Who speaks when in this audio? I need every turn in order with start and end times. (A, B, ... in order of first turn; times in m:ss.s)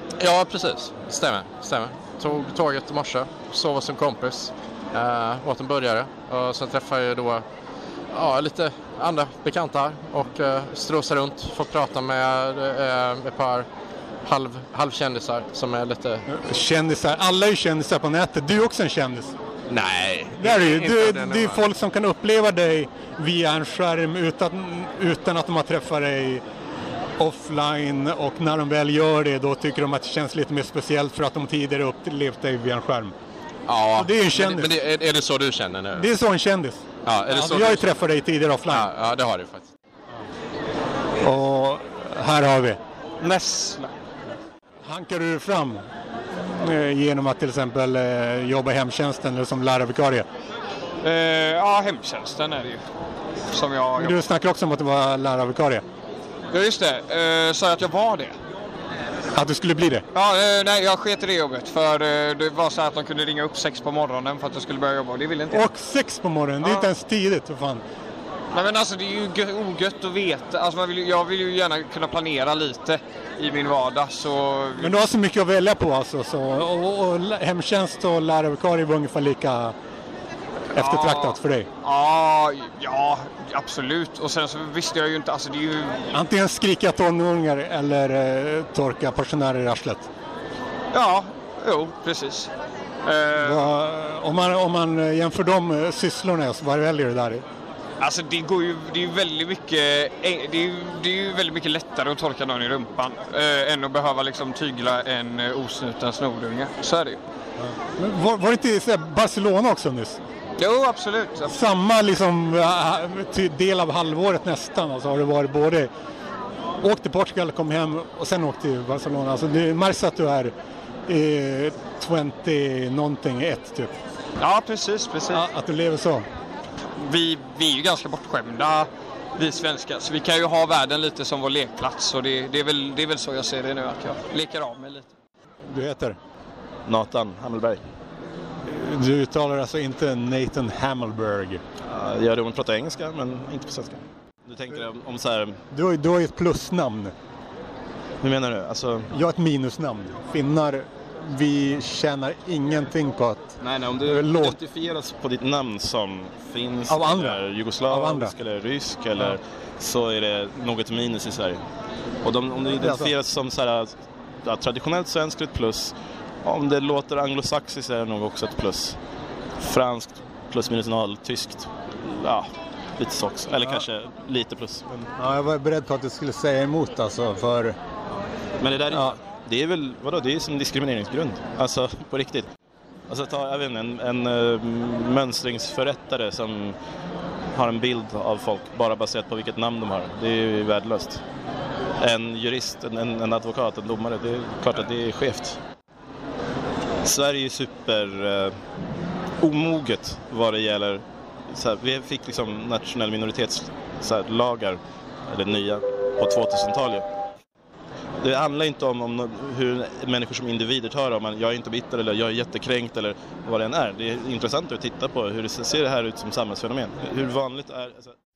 0:00.2-0:07.4 A
0:08.1-0:13.7 A
0:14.2-0:16.2 A
0:16.3-0:19.4 B
0:19.7-0:21.6 A
0:20.4-0:26.4 B
0:27.2-0:33.2 B
0:33.7-0:36.1 A
0:34.0-0:34.8 B
0:36.0-0:38.9 B
0:37.0-0:38.0 A
0:38.7-0:39.7 A
0:41.2-0:42.8 B
0:43.2-0:43.9 C
0:44.9-0:45.9 B
0:46.6-0:50.3 B
0:51.0-0:52.8 C
0:53.5-0:54.2 C
0:54.0-0:55.8 B
0:56.5-0:58.4 C
0:59.4-1:00.0 B
1:00.1-1:05.6 C
1:05.5-1:07.8 B
1:06.6-1:06.9 C
1:08.5-1:15.0 C
1:14.8-1:19.8 B
1:20.8-1:21.7 B
1:20.8-1:26.0 C
1:26.1-1:30.1 B
1:30.9-1:32.5 C
1:33.0-1:33.7 C
1:33.4-1:37.4 B
1:38.0-1:47.2 C
1:47.6-1:50.2 B
1:50.6-1:51.5 C
1:51.5-1:55.9 B
1:56.8-2:00.5 B
2:01.1-2:03.9 B
2:04.4-2:05.4 C
2:05.3-2:06.3 B
2:07.0-2:15.1 C
2:15.7-2:16.2 B
2:16.9-2:17.8 D
2:18.7-2:21.6 B
2:21.9-2:25.6 D
2:25.7-2:27.1 B
2:28.2-2:29.1 D
2:29.1-2:34.6 B
2:33.6-2:41.6 D
2:36.9-2:38.3 B
2:42.2-2:43.9 D
2:42.8-2:43.1 B
2:44.4-2:45.9 D
2:46.4-2:49.0 D
2:49.6-2:55.0 D
2:55.2-2:57.8 B
2:58.6-3:02.5 D
2:58.9-2:59.2 B
3:03.1-3:06.8 D
3:07.6-3:11.2 D
3:12.0-3:15.6 D
3:17.0-3:18.6 D
3:19.4-3:27.0 D
3:28.2-3:38.1 D